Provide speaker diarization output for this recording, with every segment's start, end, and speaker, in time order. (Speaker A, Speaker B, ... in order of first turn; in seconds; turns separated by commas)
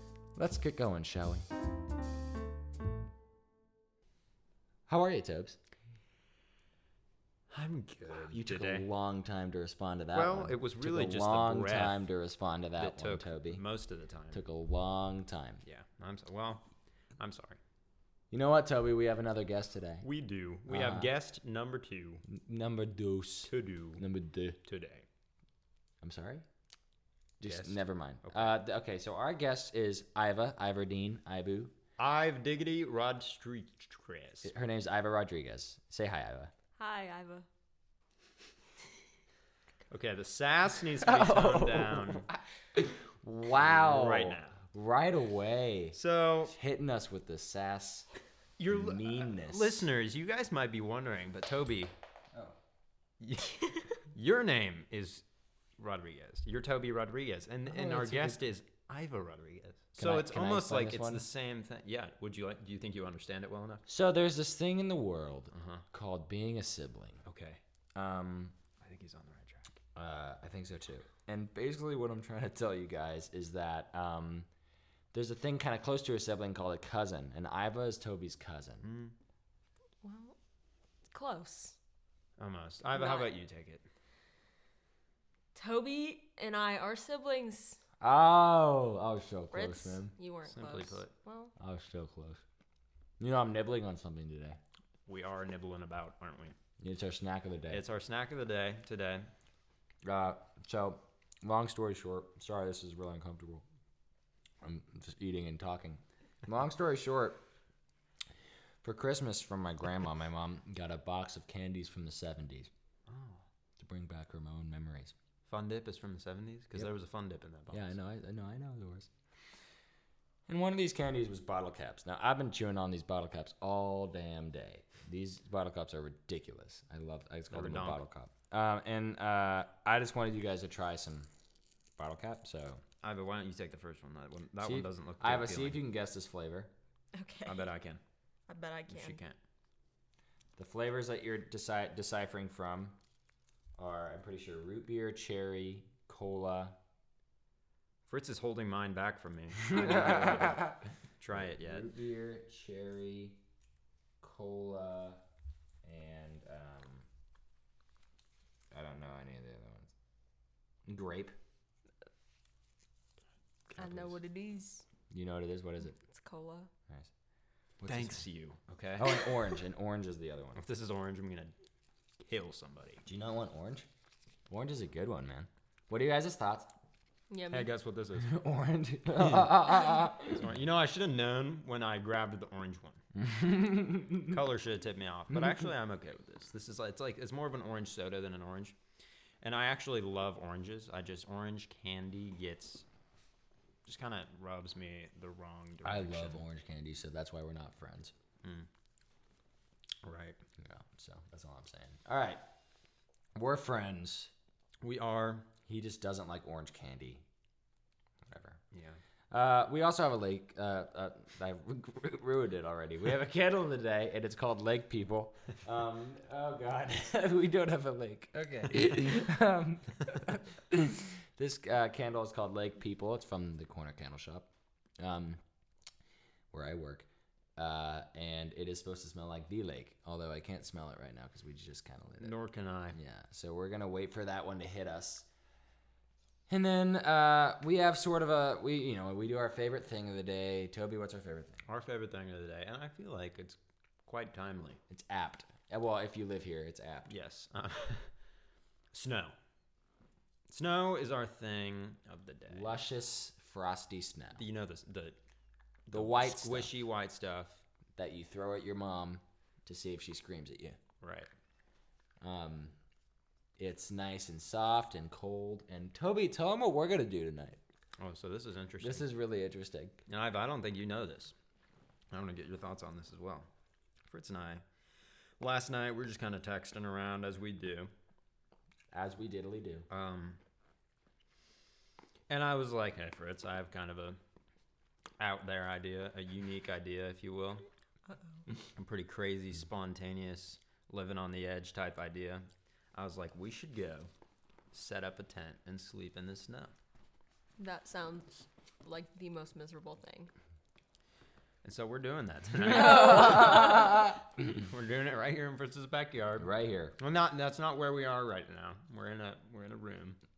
Speaker A: 0.4-1.5, Speaker A: 4.9-5.6, Speaker B: 7.5-8.9, Speaker A: 8.3-13.6, Speaker B: 10.1-12.1, Speaker B: 12.8-14.4, Speaker A: 14.3-15.6, Speaker B: 15.6-16.6, Speaker B: 17.2-17.6, Speaker A: 18.3-20.1, Speaker B: 20.0-22.2, Speaker A: 20.7-21.1, Speaker A: 22.3-24.6, Speaker B: 23.5-24.0, Speaker B: 24.6-25.1, Speaker A: 26.0-26.5, Speaker A: 27.4-31.7, Speaker B: 27.4-28.5, Speaker B: 32.0-34.5, Speaker A: 34.4-36.5, Speaker C: 36.8-37.5, Speaker B: 39.9-42.3, Speaker A: 41.0-48.1, Speaker B: 43.4-44.6, Speaker B: 46.0-46.5, Speaker B: 48.6-51.9, Speaker A: 48.7-49.9, Speaker B: 53.2-55.2, Speaker B: 55.8-63.9, Speaker A: 57.7-58.4, Speaker A: 60.0-61.3, Speaker A: 63.9-67.2, Speaker B: 65.5-65.8, Speaker B: 67.2-67.6, Speaker A: 68.0-68.5, Speaker B: 68.8-69.7, Speaker A: 70.0-74.5, Speaker A: 75.1-78.9, Speaker B: 78.8-79.2, Speaker C: 80.0-80.4, Speaker C: 81.1-81.8, Speaker B: 82.4-83.8, Speaker C: 83.0-83.3, Speaker C: 85.5-87.8, Speaker A: 88.0-90.1, Speaker C: 89.5-91.5, Speaker B: 90.5-91.1, Speaker A: 91.6-92.4, Speaker A: 93.2-94.6, Speaker B: 95.1-96.5, Speaker A: 96.8-97.8, Speaker B: 97.7-99.3, Speaker A: 100.0-103.6, Speaker A: 104.6-107.4, Speaker A: 108.8-112.7, Speaker B: 113.1-113.4, Speaker A: 113.8-115.2, Speaker B: 115.5-117.9, Speaker A: 117.7-119.1, Speaker A: 120.5-131.3, Speaker B: 127.5-128.0, Speaker A: 132.0-132.8, Speaker B: 133.0-135.8, Speaker A: 134.6-136.7, Speaker C: 137.1-137.7, Speaker B: 137.5-138.0, Speaker C: 138.5-139.2, Speaker B: 138.9-139.4, Speaker A: 140.6-143.0, Speaker A: 143.8-146.8, Speaker B: 148.1-151.9, Speaker A: 149.6-153.4, Speaker A: 154.2-155.2, Speaker A: 155.8-157.1, Speaker A: 158.7-159.9, Speaker A: 160.9-161.3, Speaker C: 163.8-164.8, Speaker A: 165.1-166.0, Speaker C: 165.9-166.7, Speaker A: 167.8-168.3, Speaker B: 167.9-169.3, Speaker A: 169.0-170.6, Speaker B: 170.6-171.5, Speaker B: 172.2-173.0, Speaker A: 173.1-173.9, Speaker A: 174.5-176.7, Speaker C: 177.3-177.7, Speaker B: 177.5-178.3, Speaker A: 178.2-180.5, Speaker B: 179.2-179.6, Speaker B: 180.2-183.0, Speaker A: 183.2-184.4, Speaker B: 184.3-188.8, Speaker A: 185.3-185.7, Speaker B: 189.4-192.8, Speaker B: 193.8-196.4, Speaker A: 195.8-198.1, Speaker B: 198.4-198.7, Speaker B: 200.0-200.4, Speaker A: 200.6-202.4, Speaker A: 203.3-204.3, Speaker B: 204.8-205.5, Speaker A: 205.7-207.2, Speaker A: 208.3-208.6, Speaker B: 208.7-209.0, Speaker A: 209.3-225.4, Speaker A: 226.5-232.4, Speaker B: 232.2-233.0, Speaker A: 232.9-235.3, Speaker A: 236.5-241.6, Speaker B: 241.7-244.8, Speaker A: 244.9-247.1, Speaker B: 247.1-248.1, Speaker B: 248.9-249.3, Speaker B: 250.5-252.8, Speaker A: 252.5-254.4, Speaker B: 254.4-255.2, Speaker B: 255.9-257.6, Speaker A: 255.9-256.7, Speaker A: 258.0-260.8, Speaker B: 261.0-261.3, Speaker A: 262.2-262.8, Speaker A: 263.6-267.6, Speaker B: 268.0-269.1, Speaker A: 268.8-270.0, Speaker B: 270.1-271.4, Speaker B: 272.1-273.5, Speaker B: 274.1-274.6, Speaker B: 275.4-277.9, Speaker A: 278.9-279.9, Speaker B: 279.9-280.4, Speaker B: 282.3-284.2, Speaker B: 285.2-287.6, Speaker C: 288.1-288.4, Speaker B: 288.8-294.1, Speaker B: 294.7-296.7, Speaker C: 297.6-300.3, Speaker B: 301.6-304.0, Speaker C: 302.7-304.0, Speaker A: 302.7-304.3, Speaker B: 304.6-310.2, Speaker A: 306.4-307.0